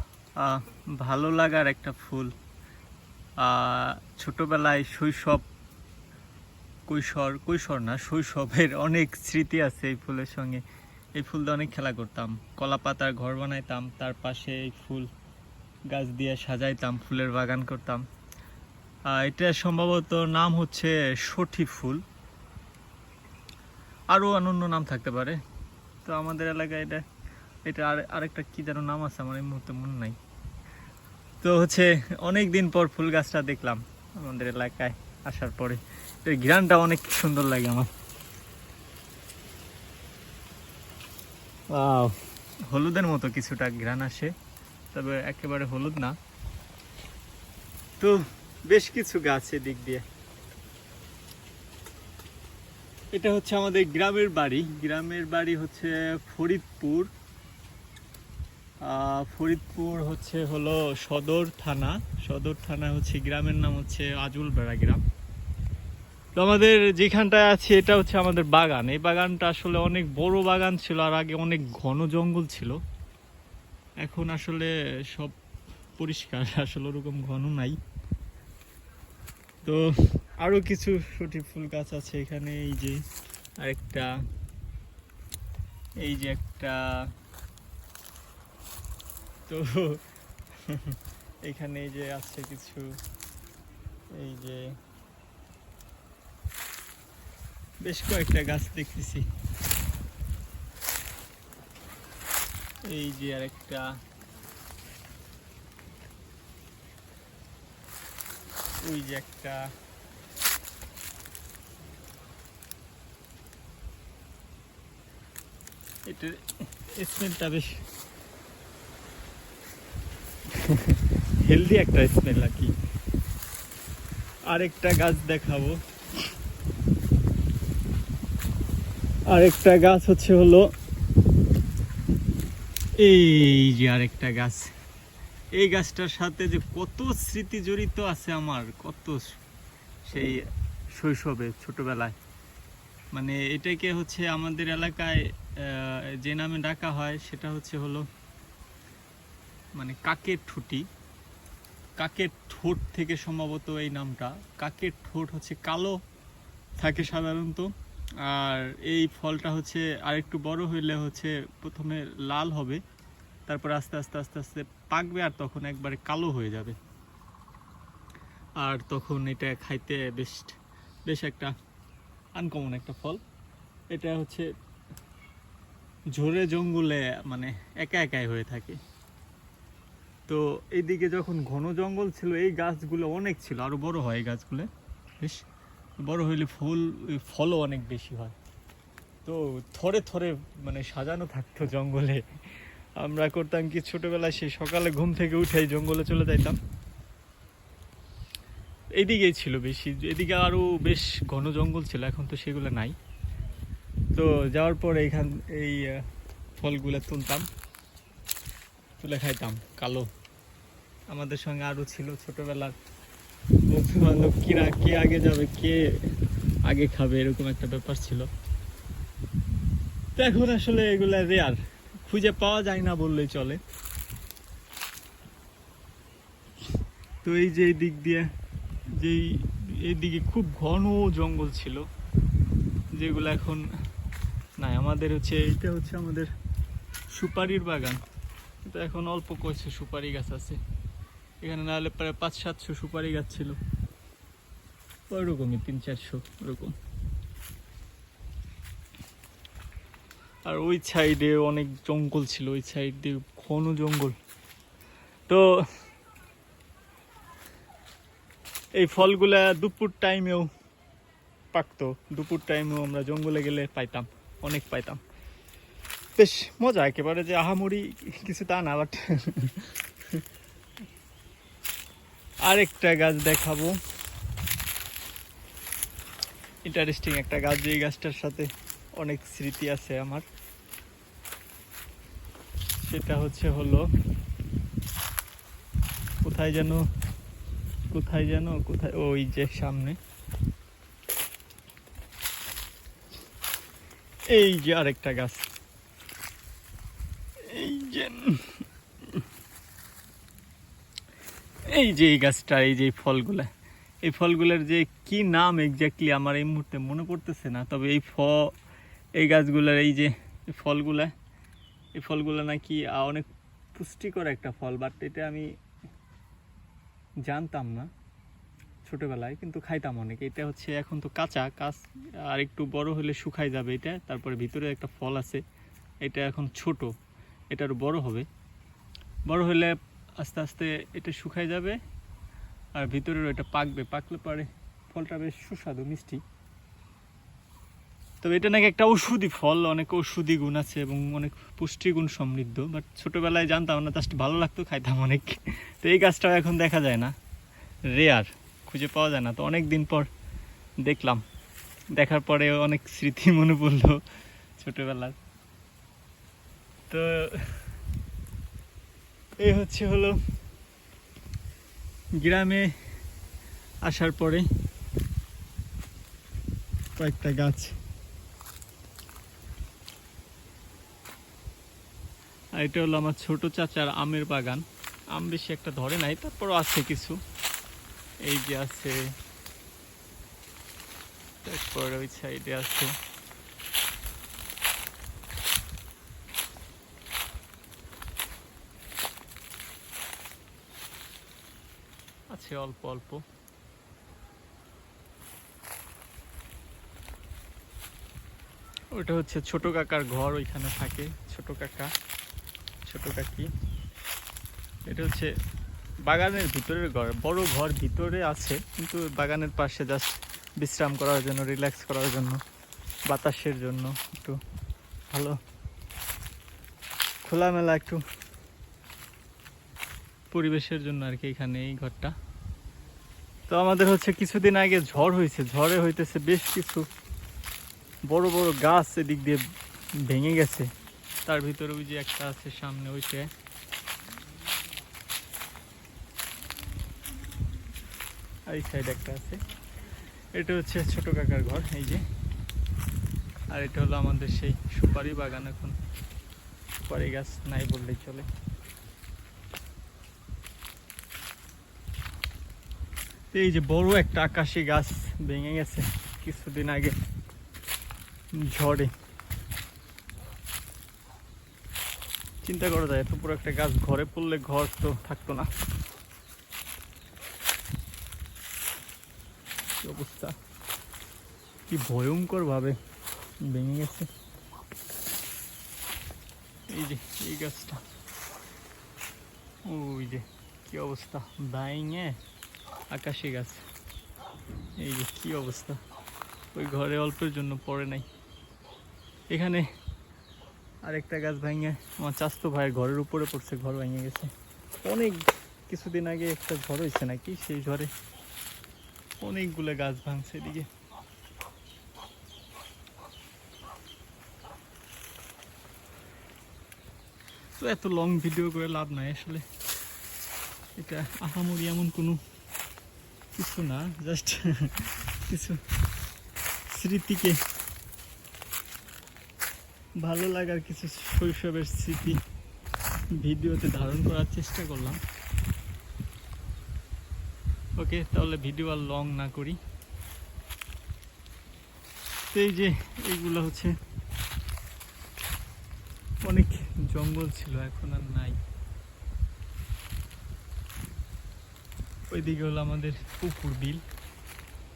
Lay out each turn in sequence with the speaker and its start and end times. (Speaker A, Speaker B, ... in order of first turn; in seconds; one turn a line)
Speaker A: 0.4-2.3
Speaker A: 3.4-5.4
Speaker A: 6.9-10.6
Speaker A: 11.2-15.1
Speaker A: 15.9-18.0
Speaker A: 19.2-22.0
Speaker A: 24.1-25.4
Speaker A: 26.0-27.0
Speaker A: 27.6-30.1
Speaker A: 31.4-37.9
Speaker A: 41.7-42.1
Speaker A: 42.7-44.3
Speaker A: 44.9-46.1
Speaker A: 48.7-50.0
Speaker A: 53.1-57.1
Speaker A: 58.9-65.0
Speaker A: 66.4-72.7
Speaker A: 74.0-75.3
Speaker A: 76.0-77.8
Speaker A: 80.4-83.0
Speaker A: 83.6-84.1
Speaker A: 86.0-86.8
Speaker A: 89.5-90.0
Speaker A: 90.6-91.0
Speaker A: 91.5-92.9
Speaker A: 94.2-94.6
Speaker A: 97.8-99.2
Speaker A: 102.9-103.8
Speaker A: 108.8-109.6
Speaker A: 116.1-116.4
Speaker A: 117.0-117.7
Speaker A: 120.5-122.7
Speaker A: 124.5-125.8
Speaker A: 129.3-130.7
Speaker A: 133.0-134.7
Speaker A: 135.6-139.2
Speaker A: 140.1-140.3
Speaker A: 141.0-142.2
Speaker A: 143.1-148.0
Speaker A: 149.8-150.8
Speaker A: 152.0-156.0
Speaker A: 156.8-157.7
Speaker A: 158.2-162.8
Speaker A: 163.5-166.8
Speaker A: 168.6-170.5
Speaker A: 171.1-171.5
Speaker A: 172.4-173.2
Speaker A: 173.9-174.5
Speaker A: 176.2-178.8
Speaker A: 180.3-184.7
Speaker A: 186.0-188.3
Speaker A: 189.2-192.2
Speaker A: 193.0-196.6
Speaker A: 198.9-202.9
Speaker A: 204.1-206.0
Speaker A: 206.6-207.4
Speaker A: 209.0-210.1
Speaker A: 211.1-212.7
Speaker A: 213.7-215.8
Speaker A: 216.7-218.3
Speaker A: 220.2-223.6
Speaker A: 227.2-228.2
Speaker A: 229.0-231.8
Speaker A: 233.0-233.6
Speaker A: 234.6-236.3
Speaker A: 237.1-238.0
Speaker A: 238.7-240.6
Speaker A: 241.4-243.6
Speaker A: 245.1-246.7
Speaker A: 250.5-254.1
Speaker A: 258.8-260.5
Speaker A: 261.5-265.0
Speaker A: 266.2-270.2
Speaker A: 272.5-273.8
Speaker A: 276.7-280.2
Speaker A: 282.8-283.8
Speaker A: 286.2-286.8
Speaker A: 287.9-290.0
Speaker A: 294.3-295.5
Speaker A: 297.5-298.6
Speaker A: 301.7-303.5
Speaker A: 304.1-308.4
Speaker A: 309.2-311.1
Speaker A: 312.0-315.4
Speaker A: 317.3-317.9
Speaker A: 318.9-325.4
Speaker A: 326.0-326.9
Speaker A: 327.5-328.3
Speaker A: 329.3-331.8
Speaker A: 332.8-336.2
Speaker A: 338.2-347.1
Speaker A: 347.9-350.1
Speaker A: 350.8-351.2
Speaker A: 352.0-354.0
Speaker A: 354.6-355.1
Speaker A: 356.9-357.5
Speaker A: 359.4-360.2
Speaker A: 362.2-362.6
Speaker A: 363.9-364.4
Speaker A: 367.0-367.7
Speaker A: 372.6-374.6
Speaker A: 375.1-377.2
Speaker A: 378.2-378.9
Speaker A: 381.4-382.9
Speaker A: 392.3-393.2
Speaker A: 398.9-401.9
Speaker A: 402.9-403.5
Speaker A: 404.9-405.3
Speaker A: 406.1-412.4
Speaker A: 413.1-414.4
Speaker A: 415.1-415.4
Speaker A: 417.2-418.0
Speaker A: 420.3-422.1
Speaker A: 423.5-426.9
Speaker A: 428.1-429.4
Speaker A: 430.1-430.7
Speaker A: 431.2-433.3
Speaker A: 438.5-439.4
Speaker A: 440.3-442.0
Speaker A: 443.5-445.7
Speaker A: 446.9-448.3
Speaker A: 453.3-456.9
Speaker A: 458.5-458.9
Speaker A: 462.4-465.5
Speaker A: 469.8-470.3
Speaker A: 471.7-472.8
Speaker A: 473.4-474.1
Speaker A: 476.7-477.8
Speaker A: 479.7-482.1
Speaker A: 482.9-483.6
Speaker A: 484.8-485.8
Speaker A: 486.5-488.1
Speaker A: 489.3-489.6
Speaker A: 490.9-494.3
Speaker A: 494.8-497.9
Speaker A: 499.2-500.7
Speaker A: 507.6-509.4
Speaker A: 510.8-512.2
Speaker A: 513.3-515.6
Speaker A: 516.7-517.4
Speaker A: 520.0-522.2
Speaker A: 523.2-525.0
Speaker A: 527.8-529.6
Speaker A: 532.3-533.7
Speaker A: 536.2-538.4
Speaker A: 542.1-543.8